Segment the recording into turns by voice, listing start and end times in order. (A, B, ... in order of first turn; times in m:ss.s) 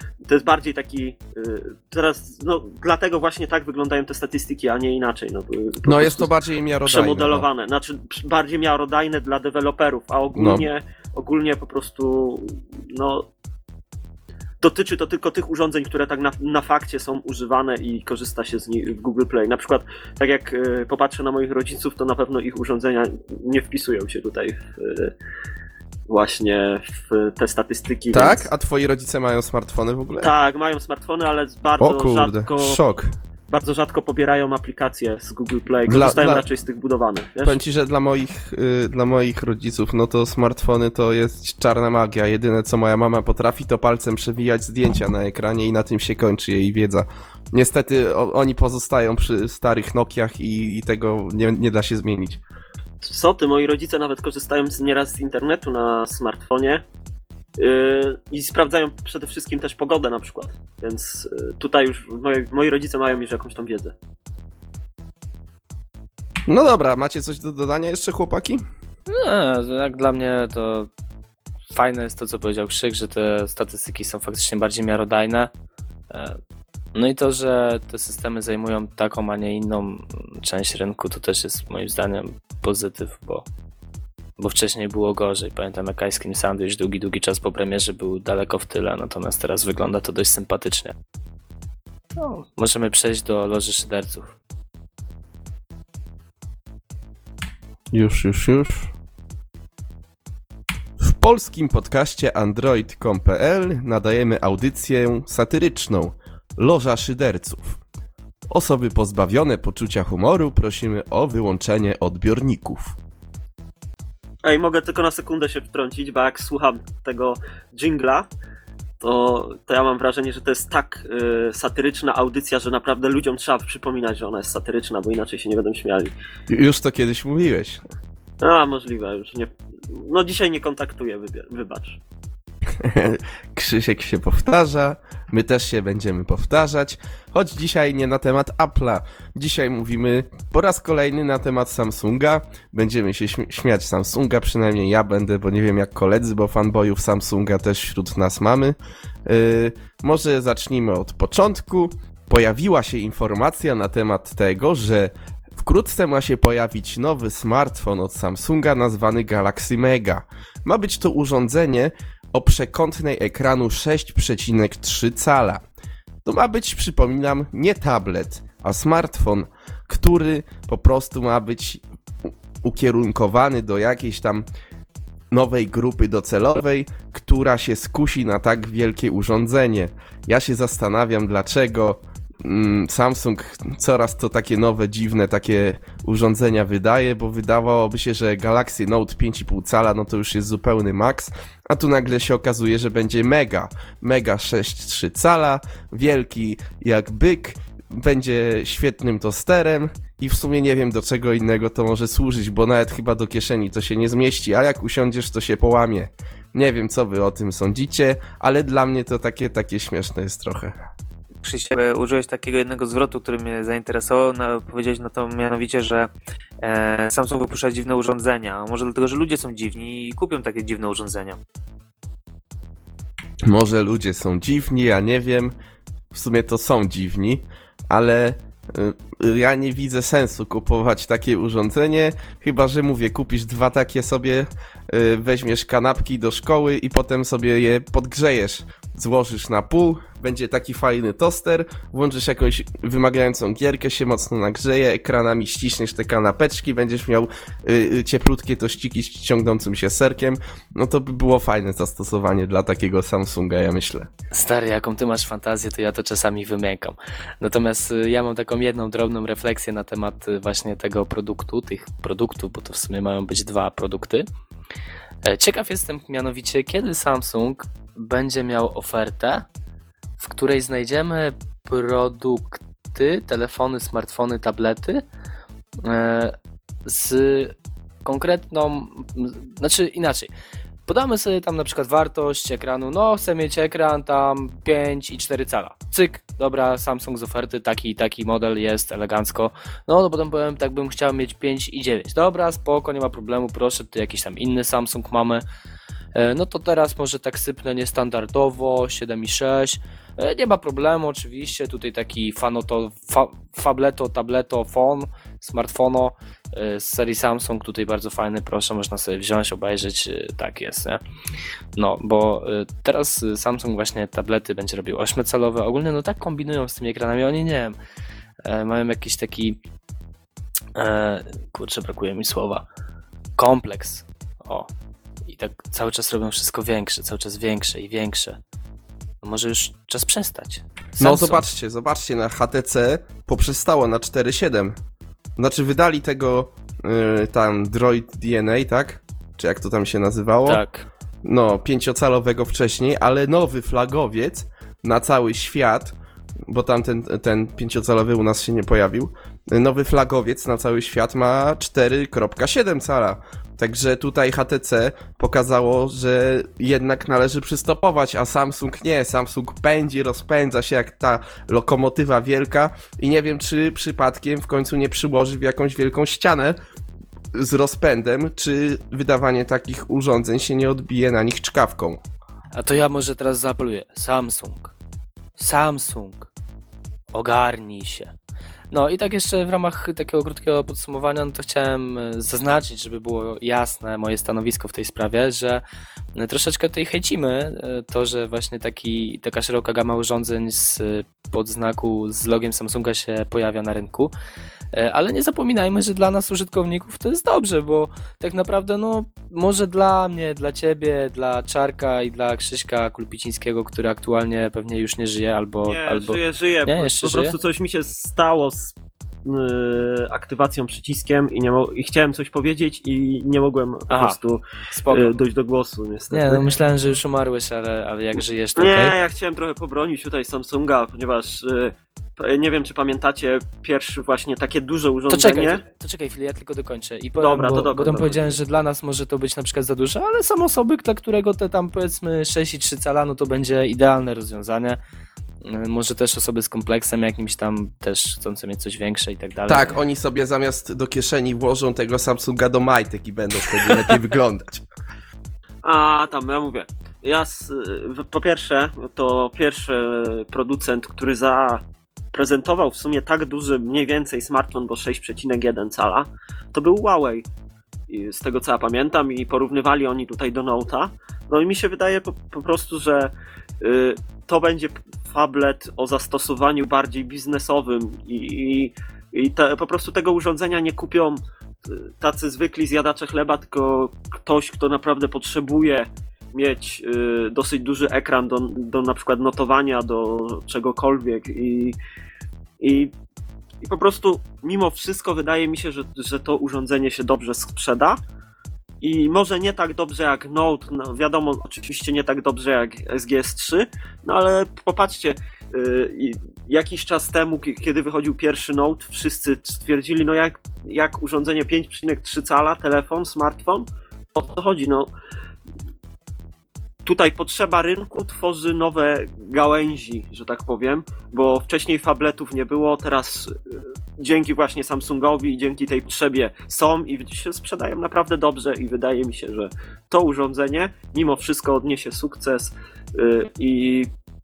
0:00.2-0:06.3 A
0:05.8-0:07.4 B
0:06.9-0:13.3 A
0:10.3-0:10.7 B
0:14.6-0:25.1 A
0:26.1-0:28.5 A
0:28.1-0:30.3 B
0:30.2-0:32.8 A
0:31.8-0:33.1 B
0:33.5-0:37.6 A
0:35.9-0:36.4 B
0:37.4-0:52.4 B
0:53.0-0:56.8 A
0:57.6-1:03.9 A
1:06.5-1:08.6 B
1:09.1-1:10.9 C
1:11.7-1:15.5 C
1:16.1-1:16.4 C
1:16.9-1:23.4 C
1:24.4-1:30.9 C
1:32.2-1:34.4 C
1:37.9-1:38.9 B
1:41.0-1:47.8 B
1:48.5-1:53.0 B
1:54.4-1:58.3 A
1:59.0-2:06.1 A
2:06.5-2:07.8 B
2:08.4-2:12.0 A
2:12.8-2:28.7 B
2:29.2-2:45.6 B
2:46.2-2:51.8 B
2:52.6-2:54.4 B
2:55.3-3:30.7 B
3:31.4-3:36.1 D
3:36.6-3:41.4 D
3:43.4-3:45.5 B
3:46.1-4:14.1 B
4:14.3-4:24.2 C
4:25.2-4:29.4 C
4:30.2-4:35.0 C
4:35.8-4:40.3 C
4:40.9-4:55.4 C
4:56.1-5:11.0 C
5:11.8-5:17.8 C
5:18.4-5:19.6 C
5:20.7-5:22.6 C
5:23.4-5:24.7 C
5:25.2-5:28.4 C
5:29.2-5:31.4 C
5:31.0-5:34.8 B
5:35.4-5:40.6 B
5:40.4-5:40.9 C
5:41.2-5:45.9 B
5:46.5-6:06.6 B
6:07.3-6:12.0 B
6:12.5-6:14.7 C
6:15.4-6:16.3 C
6:17.1-6:18.1 C
6:18.7-6:25.6 C
6:26.1-6:34.1 C
6:34.7-6:47.4 C
6:45.6-6:56.4 A
6:53.9-6:54.2 C
6:54.7-6:55.1 C
6:56.1-6:58.9 C
6:58.6-7:05.6 A
7:05.1-7:14.8 C
7:07.2-7:08.4 A
7:15.4-7:19.8 C
7:19.5-7:24.6 B
7:25.6-7:37.2 A
7:37.9-8:01.8 A
8:02.6-8:02.9 A
8:03.6-8:08.0 A
8:08.8-8:24.9 A
8:26.8-8:43.9 A